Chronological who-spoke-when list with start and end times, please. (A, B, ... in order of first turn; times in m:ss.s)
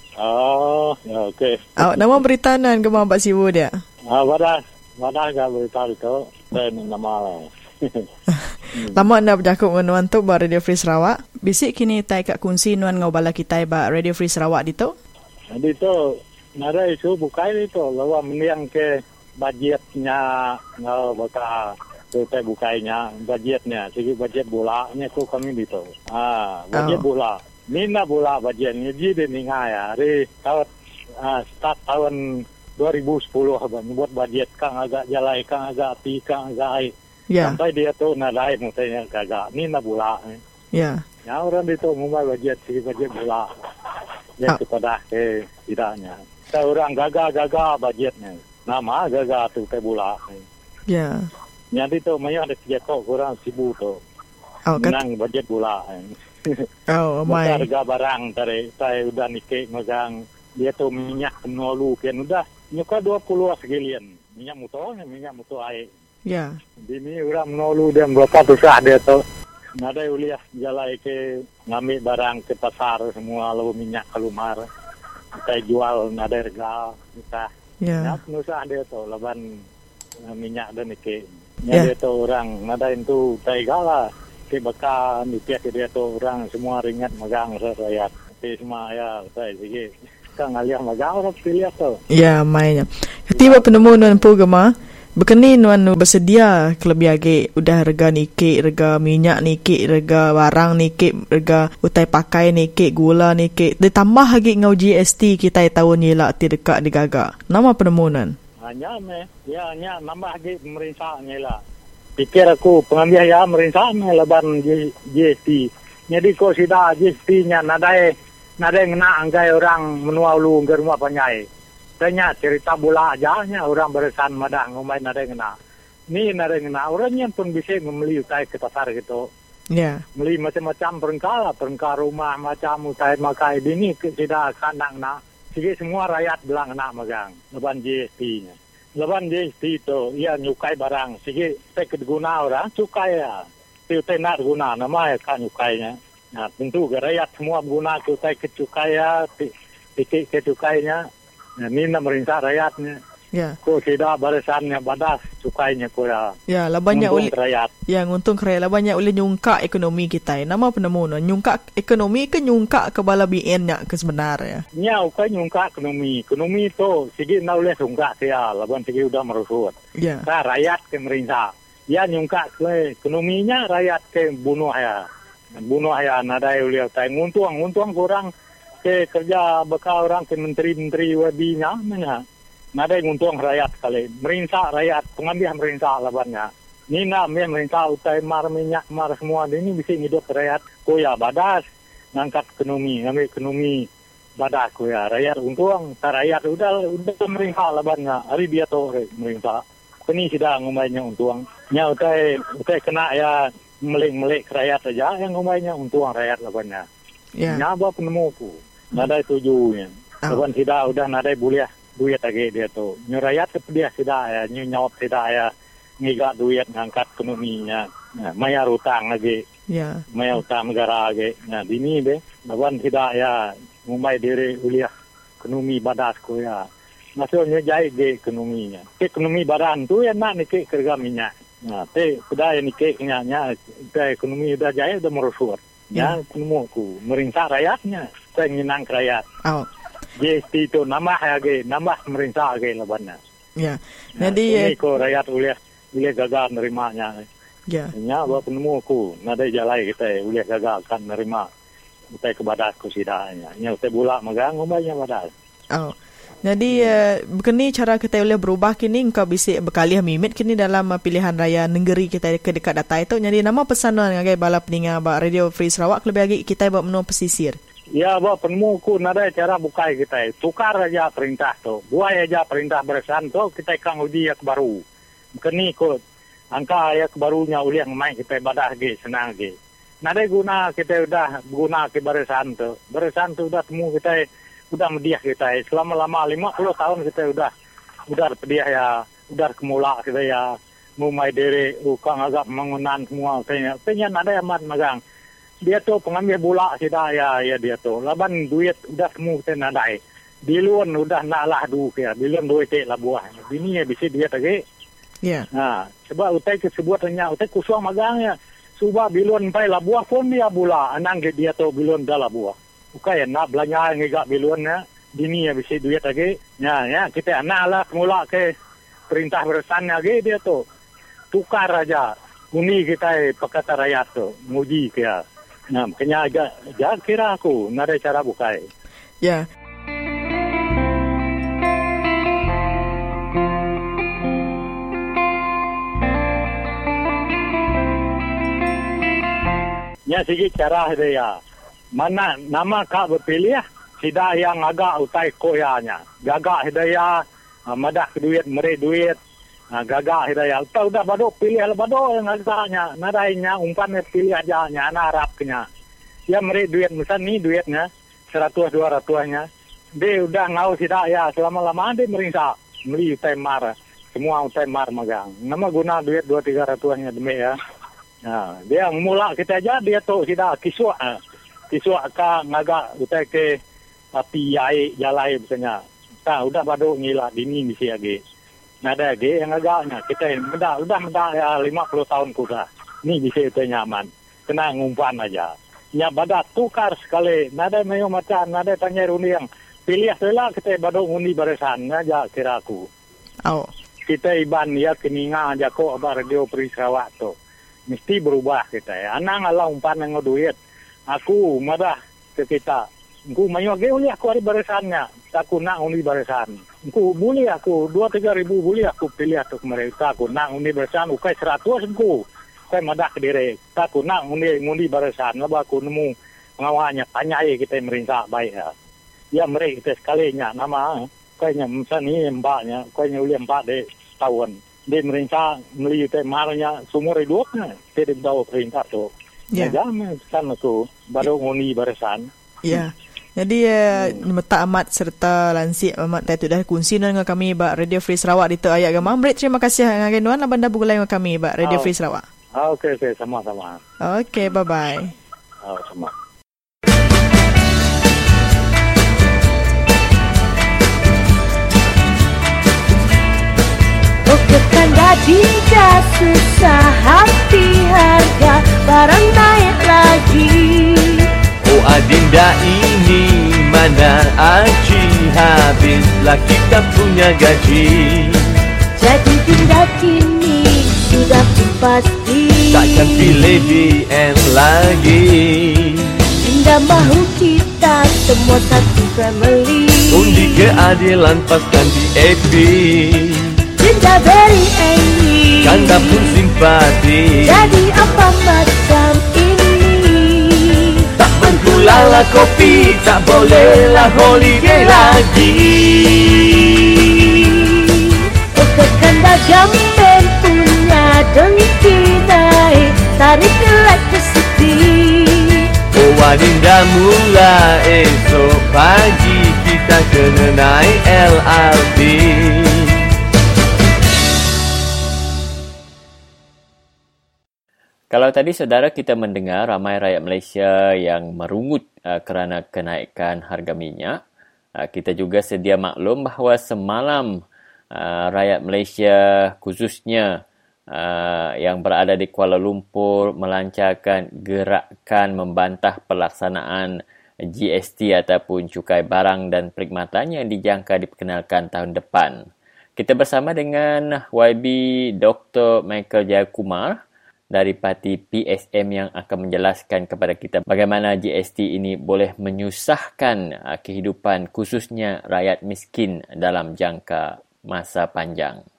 0:00.2-0:02.1 A
0:01.8-0:03.8 B
0:04.1-0:08.1 A
0:08.7-0:09.0 A
0:08.9-0:15.0 B
0:15.5-0:30.7 A
0:26.7-0:27.0 B
0:31.2-0:40.4 A
0:37.3-0:37.6 B
0:40.7-0:41.0 B
0:41.2-0:43.5 A
0:44.4-0:50.4 A
0:50.9-0:51.3 B
0:51.7-0:54.0 A
0:54.7-0:55.0 B
0:54.8-0:56.7 A
0:56.9-0:57.7 B
0:57.3-1:05.9 A
1:06.2-1:06.6 B
1:06.9-1:09.2 A
1:09.8-1:14.6 A
1:15.4-1:19.4 A
1:17.8-1:18.2 B
1:20.3-1:32.0 A
1:32.1-1:48.3 B
1:33.3-1:34.2 A
1:48.6-1:51.6 A
1:52.2-2:01.5 A
2:02.0-2:05.5 A
2:06.1-2:09.3 A
2:09.7-2:10.0 B
2:10.2-2:31.1 A
2:31.6-2:33.0 A
2:33.6-2:36.3 A
2:36.5-2:37.3 B
2:36.9-2:37.7 A
2:37.9-2:44.6 B
2:44.7-2:55.0 A
2:50.0-2:50.2 B
2:55.6-2:58.3 A
2:58.8-3:02.2 A
3:02.8-3:11.6 A
3:12.1-3:13.9 A
3:14.4-3:26.8 A
3:27.4-3:27.6 B
3:27.4-3:39.4 A
3:39.7-3:40.0 B
3:40.1-3:44.9 A
3:45.4-3:46.7 A
3:47.2-3:59.2 A
3:55.9-3:56.2 B
4:00.2-4:03.2 A
4:03.6-4:04.8 B
4:04.2-4:07.2 A
4:07.9-4:11.5 A
4:12.2-4:15.3 A
4:15.7-4:27.6 B
4:16.7-4:17.0 A
4:28.0-4:34.8 A
4:35.4-4:36.0 A
4:36.5-4:47.5 A
4:48.1-4:55.0 A
4:55.6-5:04.6 A
5:05.5-5:18.5 A
5:19.1-5:20.6 A
5:21.3-5:25.2 A
5:25.7-5:28.7 A
5:40.1-5:41.4 A
5:42.0-5:49.2 A
5:49.7-5:55.7 A
5:56.3-6:07.6 A
6:08.2-6:11.2 A
6:11.7-6:13.6 A
6:14.1-6:18.2 A
6:18.8-6:32.9 A
6:34.0-6:37.3 A
6:37.9-6:40.6 A
6:41.1-6:58.7 A
6:59.3-7:12.8 A
7:09.5-7:09.8 B
7:12.6-7:22.2 B
7:13.9-7:14.3 A
7:21.6-7:21.9 A
7:22.6-7:23.8 A
7:24.0-7:25.1 B
7:25.6-7:26.1 A
7:34.3-7:41.3 C
7:41.7-7:48.4 D
7:49.0-7:53.7 C
7:52.7-7:56.1 D
7:56.4-8:00.8 C
8:00.1-8:03.4 D
8:03.8-8:06.4 C
8:05.6-8:07.7 D
8:07.4-8:15.3 C
8:11.2-8:17.4 D
8:18.5-8:25.7 C
8:25.9-8:33.0 D
8:38.1-8:44.2 E
8:44.8-8:47.4 E
8:47.9-8:50.4 E
8:50.9-9:07.0 E
9:07.5-9:18.6 E